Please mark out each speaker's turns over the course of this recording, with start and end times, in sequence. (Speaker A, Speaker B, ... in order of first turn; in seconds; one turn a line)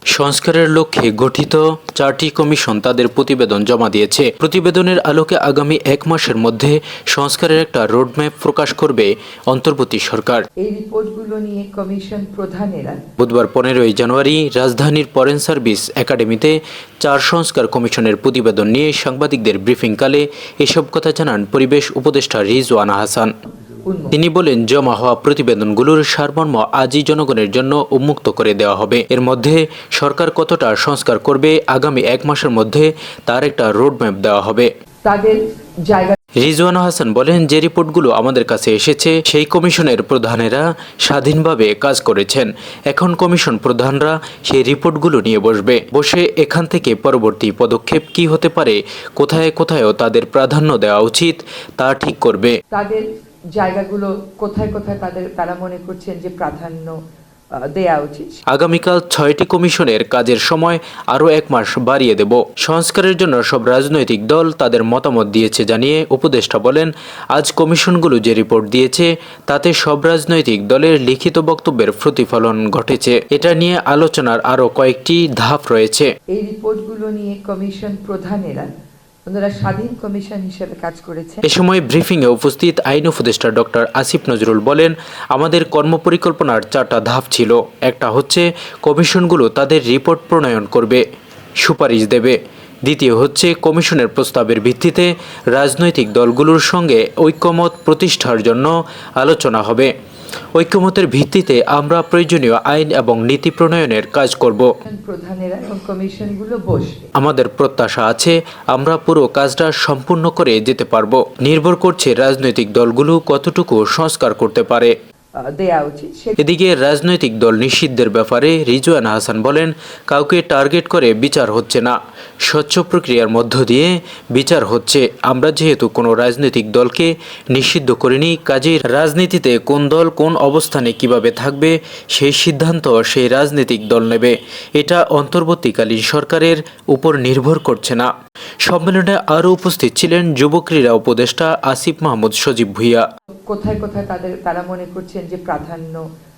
Speaker A: 0.1-10.5
Speaker B: 10.6-13.0
Speaker A: 13.2-23.3
Speaker B: 23.7-24.2
Speaker A: 24.1-34.7
Speaker B: 35.0-36.2
Speaker A: 36.4-52.6
Speaker B: 52.7-57.0
Speaker B: 57.5-58.4
Speaker A: 58.5-76.1
Speaker B: 76.3-78.7
Speaker B: 79.2-81.5
Speaker A: 81.4-91.0
Speaker A: 91.6-99.9
Speaker A: 100.5-104.7
Speaker B: 104.8-107.1
Speaker A: 107.2-114.9
Speaker B: 115.4-116.4
Speaker A: 116.4-138.1
Speaker A: 138.6-143.1
Speaker B: 143.5-146.1